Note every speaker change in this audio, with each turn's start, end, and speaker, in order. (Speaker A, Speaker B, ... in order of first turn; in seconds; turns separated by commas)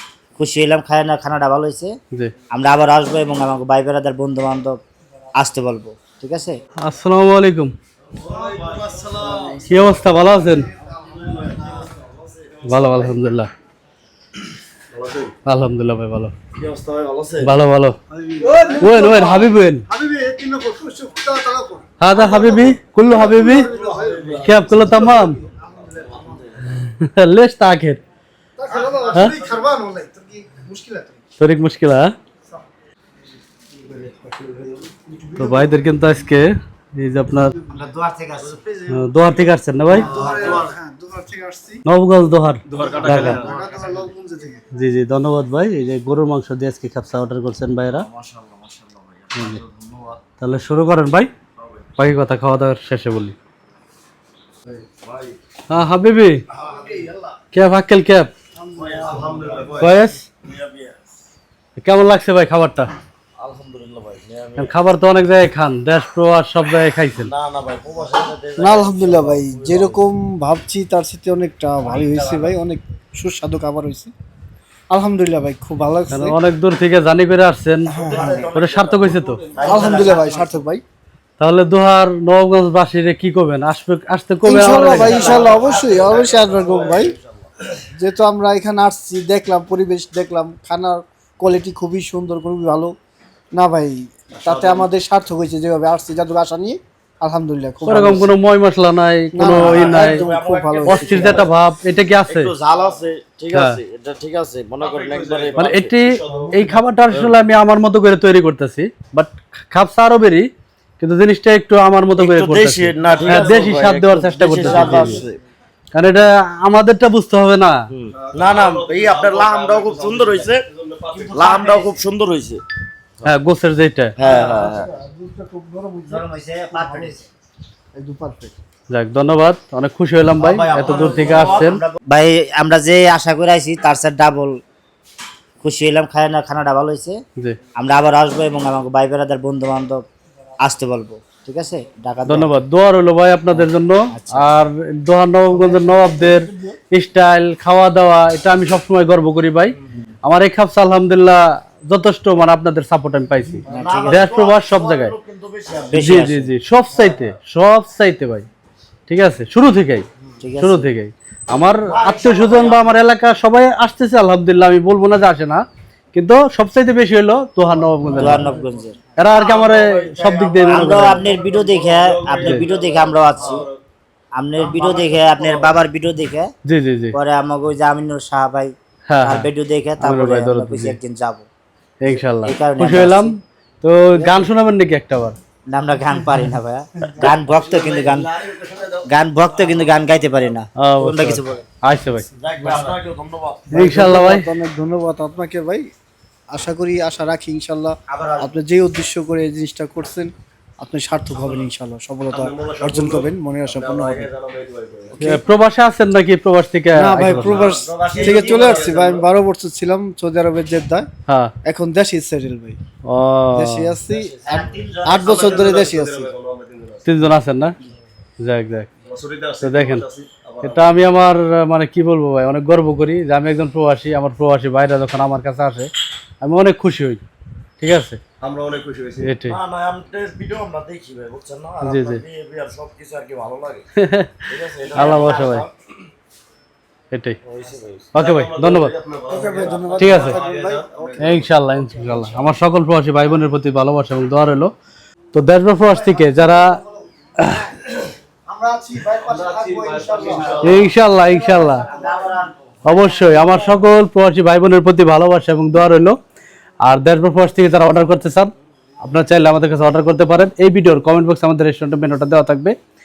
Speaker A: 0.3-1.9, Speaker A: 2.5-4.8, Speaker A: 5.4-6.5, Speaker B: 6.8-7.7, Speaker C: 8.2-9.9, Speaker D: 9.0-9.5, Speaker B: 9.6-10.7, Speaker C: 11.1-13.1, Speaker B: 12.7-13.5, Speaker C: 14.9-15.3, Speaker B: 15.4-16.3, Speaker C: 16.5-17.5, Speaker B: 17.4-18.0, Speaker E: 18.1-26.4, Speaker C: 18.6-19.2, Speaker B: 18.8-19.8, Speaker B: 22.0-23.7, Speaker C: 23.1-26.7, Speaker B: 24.4-25.4, Speaker B: 26.7-28.0, Speaker E: 28.6-31.2, Speaker B: 29.1-29.4, Speaker B: 31.4-32.1, Speaker C: 33.9-34.8, Speaker E: 35.0-35.8, Speaker B: 35.3-37.5, Speaker A: 37.7-38.6, Speaker E: 38.6-39.0, Speaker B: 38.9-40.1, Speaker A: 39.9-40.7, Speaker E: 39.9-41.8, Speaker C: 40.3-40.6, Speaker B: 41.9-43.5, Speaker C: 42.7-44.1, Speaker E: 42.8-44.6, Speaker D: 42.8-43.3, Speaker B: 44.7-48.1, Speaker C: 48.0-50.2, Speaker B: 49.3-49.6, Speaker B: 50.4-51.3, Speaker C: 51.6-51.8, Speaker B: 52.0-53.3, Speaker C: 54.7-55.4, Speaker B: 55.7-56.4, Speaker C: 56.6-57.0, Speaker B: 57.5-58.3, Speaker C: 58.8-61.0, Speaker E: 58.8-59.4, Speaker B: 59.8-60.2, Speaker B: 61.8-62.9, Speaker C: 63.4-64.7, Speaker B: 64.6-67.3, Speaker C: 67.2-70.0, Speaker E: 68.6-74.1, Speaker C: 71.8-72.5, Speaker E: 74.9-76.4, Speaker B: 76.1-79.4, Speaker E: 77.9-78.5, Speaker C: 77.9-80.5, Speaker A: 79.5-80.5, Speaker E: 79.6-80.8, Speaker B: 81.4-85.5, Speaker E: 84.4-87.1, Speaker C: 84.6-87.8, Speaker A: 84.8-85.5, Speaker E: 87.9-92.9, Speaker E: 93.5-98.3, Speaker C: 94.4-94.9, Speaker B: 97.8-100.2, Speaker E: 99.3-101.5, Speaker C: 99.5-101.5, Speaker B: 100.8-102.5, Speaker C: 102.2-106.0, Speaker B: 103.5-103.8, Speaker D: 104.8-106.7, Speaker B: 105.5-110.5, Speaker C: 107.1-107.3, Speaker B: 111.0-115.2, Speaker C: 112.2-115.4, Speaker B: 115.9-117.8, Speaker C: 117.9-120.7, Speaker D: 118.1-122.0, Speaker A: 121.1-121.9, Speaker C: 121.2-122.6, Speaker B: 123.2-124.2, Speaker C: 124.2-124.9, Speaker E: 124.2-127.1, Speaker A: 126.1-127.3, Speaker E: 127.9-128.5, Speaker B: 128.9-131.8, Speaker C: 130.4-131.7, Speaker D: 130.8-131.1, Speaker A: 131.0-134.6, Speaker A: 135.6-137.2, Speaker A: 137.8-140.0, Speaker A: 140.6-142.5, Speaker B: 142.2-155.1, Speaker A: 143.5-144.5, Speaker E: 145.5-146.8, Speaker E: 153.6-153.9, Speaker A: 153.7-154.3, Speaker C: 153.8-156.3, Speaker A: 155.9-156.5, Speaker B: 155.9-158.4, Speaker B: 159.1-160.1, Speaker A: 160.4-160.9, Speaker B: 160.6-165.6, Speaker C: 161.9-162.8, Speaker B: 166.1-168.5, Speaker A: 168.1-169.0, Speaker E: 168.2-168.5, Speaker B: 169.2-171.3, Speaker C: 169.2-173.7, Speaker D: 169.4-169.8, Speaker A: 170.7-173.7, Speaker D: 171.6-172.7, Speaker D: 173.4-173.8, Speaker A: 174.4-176.5, Speaker C: 174.6-175.8, Speaker B: 176.7-177.1, Speaker A: 177.1-178.7, Speaker B: 179.1-179.5, Speaker A: 179.2-181.4, Speaker B: 180.0-181.0, Speaker B: 182.0-185.4, Speaker A: 182.4-183.3, Speaker A: 184.2-184.5, Speaker A: 185.7-188.3, Speaker C: 187.2-190.1, Speaker A: 189.1-191.6, Speaker B: 190.8-192.3, Speaker C: 192.3-193.8, Speaker E: 193.7-195.9, Speaker B: 193.7-194.5, Speaker E: 196.5-204.3, Speaker A: 198.1-198.5, Speaker D: 202.3-203.3, Speaker C: 202.4-205.3, Speaker D: 204.5-204.8, Speaker E: 205.1-205.5, Speaker B: 205.2-207.7, Speaker E: 206.9-211.1, Speaker C: 207.2-209.2, Speaker A: 207.6-208.9, Speaker E: 211.6-212.8, Speaker B: 213.0-213.9, Speaker E: 213.5-216.3, Speaker C: 214.1-216.0, Speaker A: 214.4-215.8, Speaker D: 215.5-217.1, Speaker B: 217.0-217.8, Speaker B: 218.4-218.9, Speaker D: 219.1-220.9, Speaker B: 219.6-220.1, Speaker B: 220.6-225.9, Speaker B: 226.4-227.2, Speaker B: 227.8-228.2, Speaker D: 228.4-229.4, Speaker B: 229.2-229.6, Speaker C: 229.4-233.8, Speaker B: 231.8-232.2, Speaker B: 234.0-235.7, Speaker C: 234.5-235.7, Speaker A: 234.9-235.5, Speaker B: 237.1-237.4, Speaker C: 237.4-238.2, Speaker B: 238.1-238.9, Speaker D: 238.1-241.5, Speaker E: 239.3-241.2, Speaker C: 239.3-240.4, Speaker B: 240.0-240.4, Speaker C: 240.9-241.4, Speaker B: 241.2-244.7, Speaker B: 245.3-246.8, Speaker E: 245.9-246.9, Speaker B: 247.4-247.7, Speaker E: 248.5-252.1, Speaker D: 249.2-250.9, Speaker C: 250.0-250.9, Speaker A: 250.3-250.6, Speaker B: 250.6-251.8, Speaker A: 251.6-253.7, Speaker B: 252.8-256.1, Speaker B: 256.8-262.7